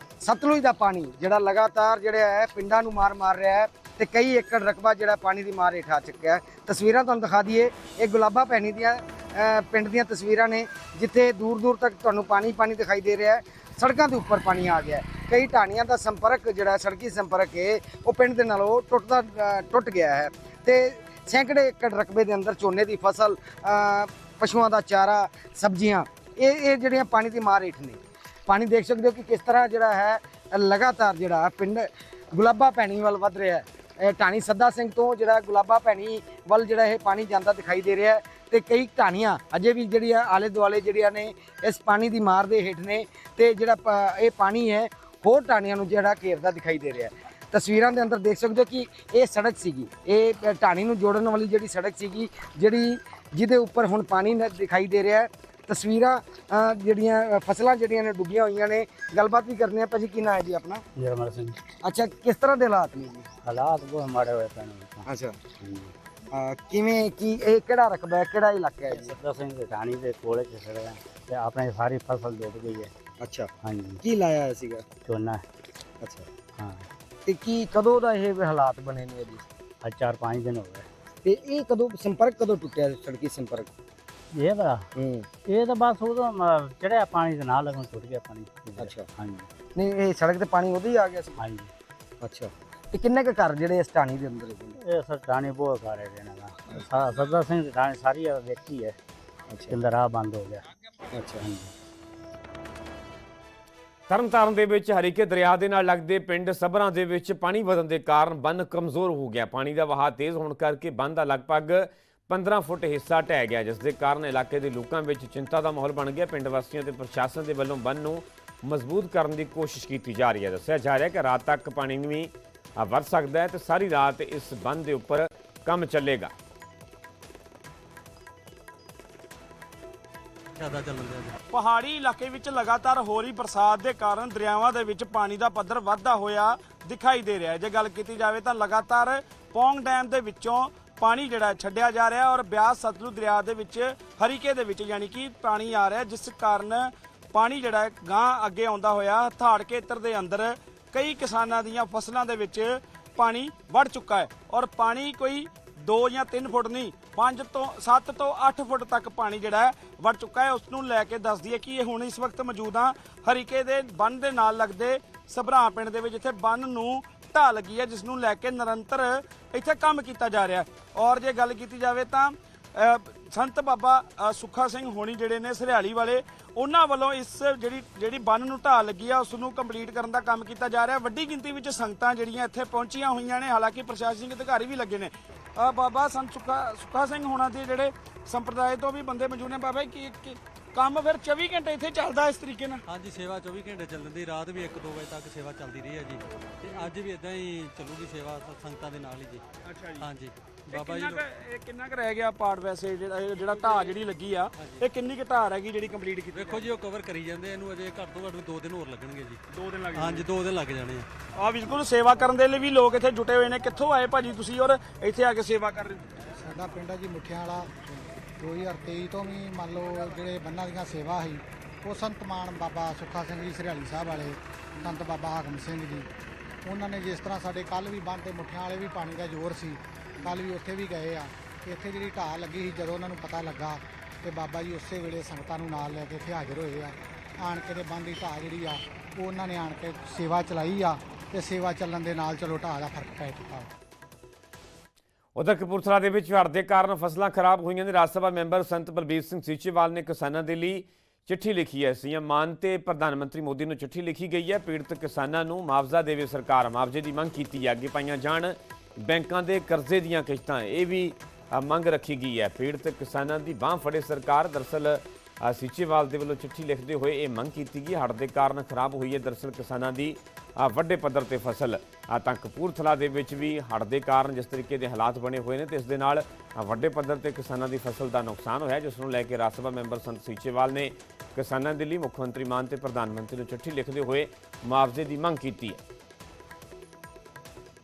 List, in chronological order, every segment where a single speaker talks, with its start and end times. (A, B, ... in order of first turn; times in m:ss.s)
0:00.2-1:00.8 A
1:01.0-1:01.5 B
1:01.8-1:03.3 A
1:03.5-1:05.0 B
1:05.1-1:05.4 A
1:05.6-1:05.9 B
1:06.3-1:09.2 A
1:09.2-1:12.9 B
1:13.2-1:14.9 A
1:13.6-1:14.0 B
1:15.1-1:15.4 B
1:16.0-1:16.3 A
1:17.3-1:19.4 A
1:19.8-1:20.9 B
1:21.2-1:23.7 A
1:24.4-1:24.8 B
1:25.0-1:25.2 A
1:25.5-1:29.5 B
1:28.8-1:29.1 A
1:29.8-1:31.4 A
1:32.2-1:34.8 A
1:34.9-1:39.0 B
1:39.5-1:39.8 A
1:39.8-1:40.6 B
1:41.1-1:41.5 A
1:44.1-2:06.3 C
2:10.6-2:11.4 D
2:11.5-3:12.8 E
3:12.9-3:19.4 D
3:19.7-3:20.0 E
3:20.0-3:21.2 D
3:20.7-3:26.7 E
3:26.4-3:29.4 D
3:29.5-3:30.3 E
3:30.0-3:31.1 D
3:31.4-3:36.0 E
3:36.4-3:37.7 F
3:38.4-3:46.1 F
3:46.6-4:03.7 F
4:05.4-4:45.8 C